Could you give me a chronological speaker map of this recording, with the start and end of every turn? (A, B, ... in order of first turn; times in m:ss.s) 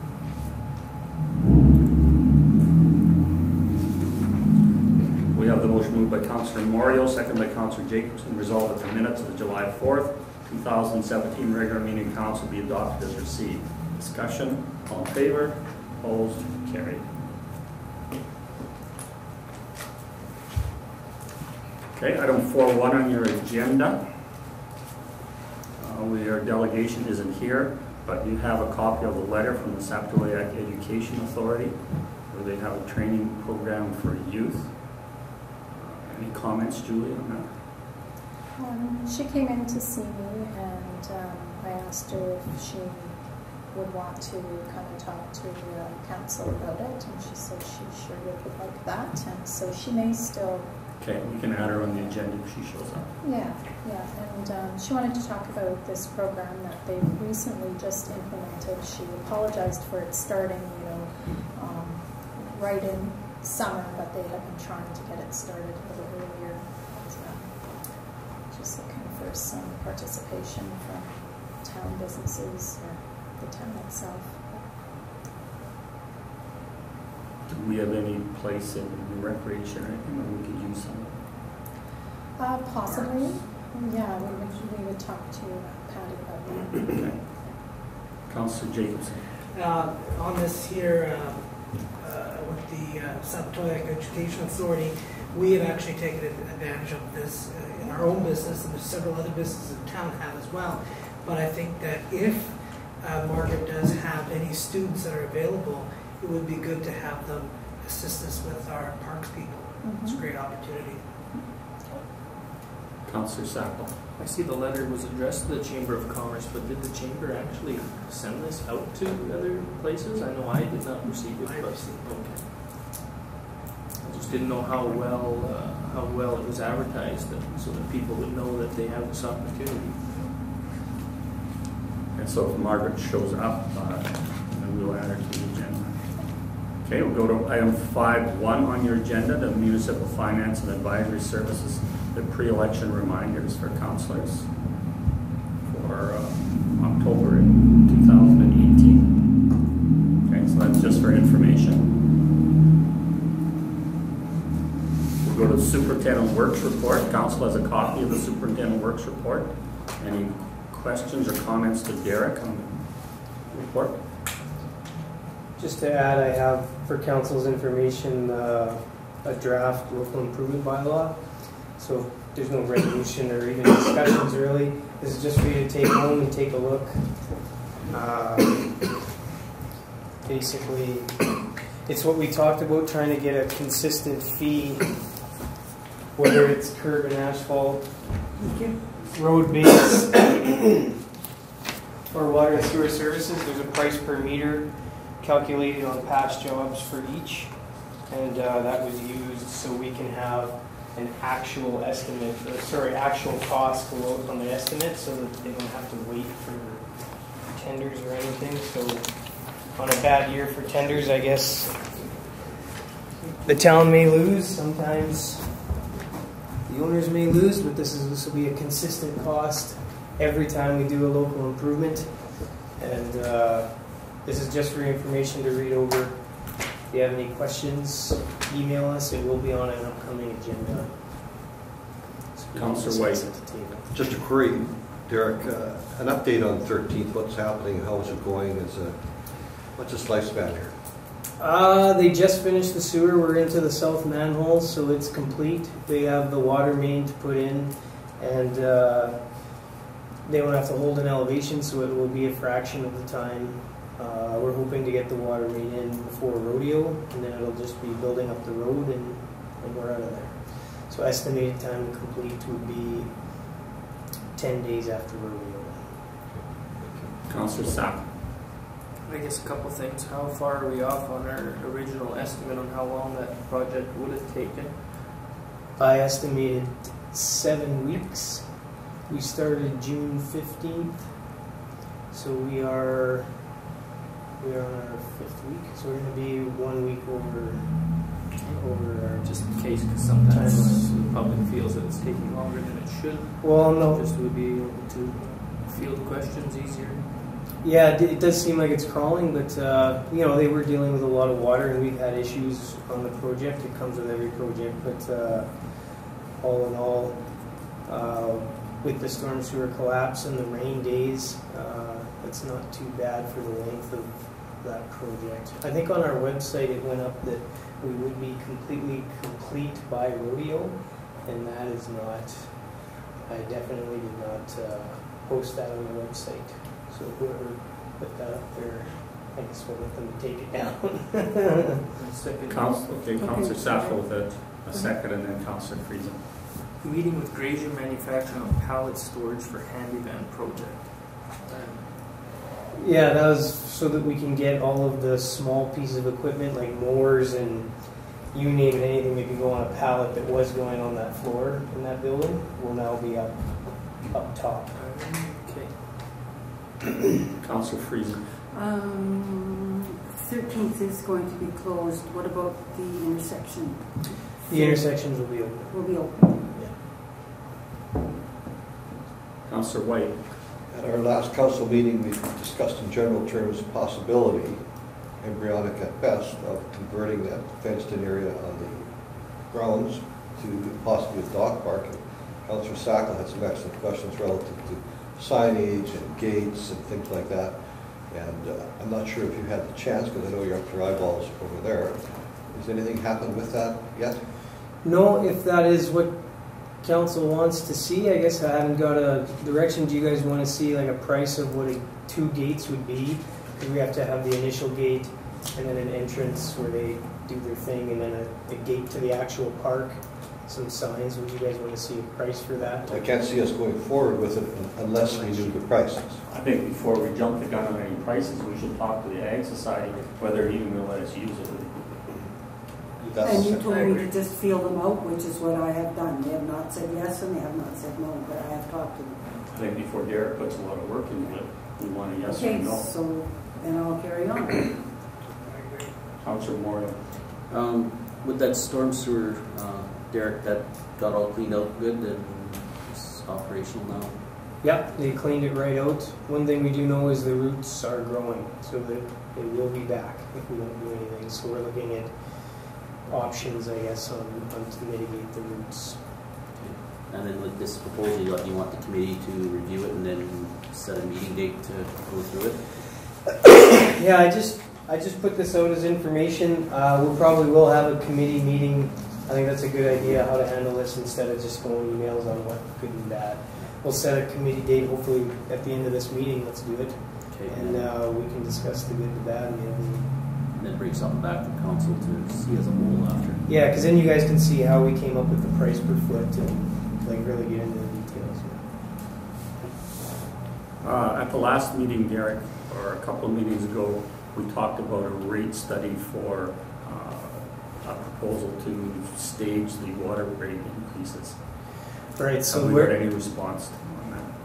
0:05.3-0:17.2 A
0:21.9-0:24.0 A
0:25.8-0:35.2 A
0:35.7-0:37.6 A
0:38.6-0:50.8 B
0:51.0-0:53.2 A
0:53.2-1:14.8 B
1:17.5-1:21.3 A
1:22.4-1:27.6 B
1:22.8-1:24.6 C
1:26.9-1:29.3 A
1:29.5-1:51.1 C
1:49.8-1:50.2 B
1:53.0-1:54.0 A
1:54.2-2:02.5 D
2:01.4-2:02.2 C
2:04.0-2:10.3 D
2:12.1-2:24.5 A
2:25.6-2:29.4 A
2:30.2-2:31.9 A
2:35.2-2:44.0 A
2:45.6-2:58.9 E
3:00.2-3:05.3 E
3:06.2-3:08.2 E
3:08.4-3:08.8 F
3:09.0-3:10.7 E
3:12.1-3:32.0 E
3:33.4-3:35.7 E
3:36.6-3:51.4 E
3:52.3-3:53.9 E
3:52.5-3:53.3 A
3:53.9-4:00.7 G
4:01.4-4:09.6 E
4:10.2-4:23.7 E
4:24.3-4:26.0 E
4:26.3-4:27.2 G
4:27.3-4:28.1 A
4:29.1-4:35.0 D
4:35.8-4:41.4 E
4:42.1-4:43.6 E
4:44.4-4:51.0 E
4:49.2-4:57.2 D
4:53.4-4:54.1 E
4:57.6-5:31.8 E
5:31.9-5:33.1 D
5:32.5-5:36.2 A
5:33.2-5:34.9 F
5:36.8-5:42.1 D
5:42.8-5:54.8 E
5:54.7-5:55.8 D
5:57.4-5:58.3 A
5:58.5-6:06.5 F
6:04.5-6:06.8 E
6:09.4-6:10.3 A
6:10.7-6:34.2 G
6:34.8-6:52.9 E
6:52.9-6:56.2 G
6:55.1-6:55.6 H
6:56.3-7:02.0 A
7:03.1-7:03.6 G
7:03.2-7:09.4 F
7:03.2-7:04.0 A
7:03.7-7:04.0 C
7:09.5-7:12.9 A
7:12.2-7:14.9 F
7:15.4-7:16.0 C
7:16.2-7:17.0 A
7:17.5-7:24.2 H
7:24.6-7:36.3 E
7:36.6-7:42.9 H
7:43.9-8:00.2 E
7:49.9-7:50.2 H
7:57.3-7:57.9 H
8:00.5-8:03.5 H
8:03.5-8:09.7 E
8:10.8-8:24.4 A
8:22.1-8:23.0 E